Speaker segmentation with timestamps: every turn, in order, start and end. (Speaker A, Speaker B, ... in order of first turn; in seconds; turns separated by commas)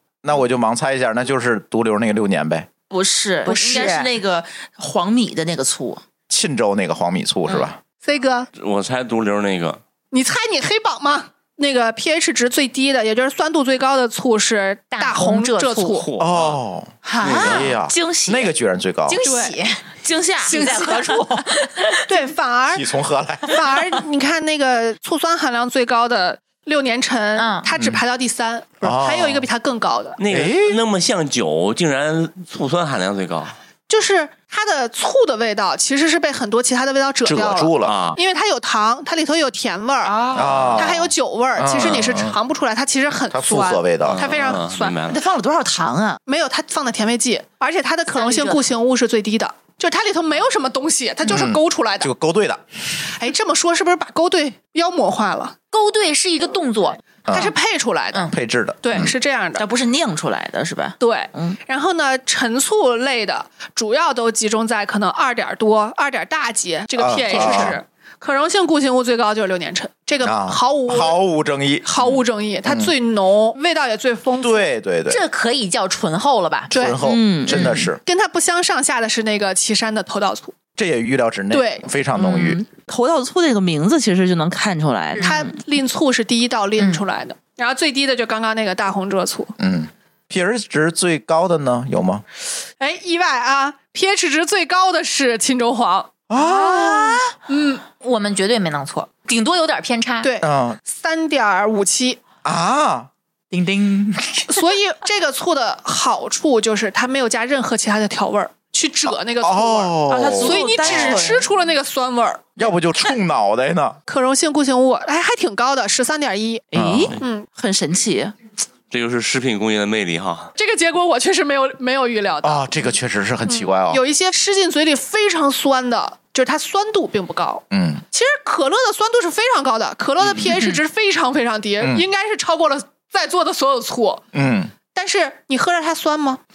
Speaker A: 0.2-2.7, Speaker B: 2.9-6.0, Speaker C: 3.5-4.1, Speaker A: 6.3-7.8, Speaker D: 8.0-8.5, Speaker E: 8.5-9.8, Speaker D: 10.1-16.1, Speaker C: 14.9-16.1, Speaker E: 16.0-16.6, Speaker A: 16.2-19.2, Speaker B: 17.0-18.5, Speaker E: 17.2-17.7, Speaker C: 19.1-19.8, Speaker D: 19.2-19.6, Speaker B: 20.0-21.4, Speaker C: 20.4-22.1, Speaker D: 20.4-21.2, Speaker D: 22.1-22.9, Speaker A: 22.7-23.6, Speaker D: 23.5-30.2, Speaker C: 27.4-27.7, Speaker A: 28.8-29.5, Speaker E: 30.2-33.6, Speaker A: 30.3-30.8, Speaker D: 33.9-45.0, Speaker A: 37.2-38.0, Speaker E: 37.8-38.2, Speaker B: 40.0-40.6, Speaker A: 40.3-42.4, Speaker A: 43.3-44.5, Speaker E: 44.0-45.2, Speaker B: 45.1-46.2, Speaker D: 46.2-52.1, Speaker C: 48.1-48.7, Speaker A: 51.2-52.6, Speaker D: 53.1-55.5, Speaker C: 55.7-57.5, Speaker A: 57.2-57.5, Speaker D: 57.3-59.6, Speaker A: 58.3-59.1, Speaker B: 59.6-61.6, Speaker D: 61.0-71.2, Speaker A: 67.0-67.8, Speaker A: 70.2-72.0, Speaker D: 71.8-74.7, Speaker A: 72.6-72.9, Speaker A: 74.4-75.2, Speaker C: 75.1-76.7, Speaker A: 76.7-78.0, Speaker D: 76.7-77.0, Speaker B: 77.0-77.9, Speaker D: 78.0-80.5, Speaker A: 80.8-82.6, Speaker D: 81.5-81.8, Speaker B: 82.1-85.5, Speaker D: 85.2-89.5, Speaker A: 89.6-92.2, Speaker D: 92.8-96.2, Speaker A: 96.3-97.2, Speaker C: 96.4-97.2, Speaker D: 96.7-97.8, Speaker C: 98.0-100.3, Speaker D: 100.2-102.2, Speaker A: 100.4-100.8, Speaker A: 102.4-103.1, Speaker C: 103.5-104.6, Speaker D: 104.5-112.5, Speaker A: 109.0-111.3, Speaker B: 110.1-111.5, Speaker A: 112.6-114.0, Speaker D: 114.1-116.7, Speaker B: 116.7-118.3, Speaker A: 116.7-117.2, Speaker D: 117.2-117.5, Speaker E: 118.9-120.5, Speaker D: 120.6-122.9, Speaker A: 122.4-124.0, Speaker D: 123.5-134.2, Speaker A: 127.7-128.0, Speaker A: 131.8-132.1, Speaker A: 134.3-134.7, Speaker D: 134.9-136.4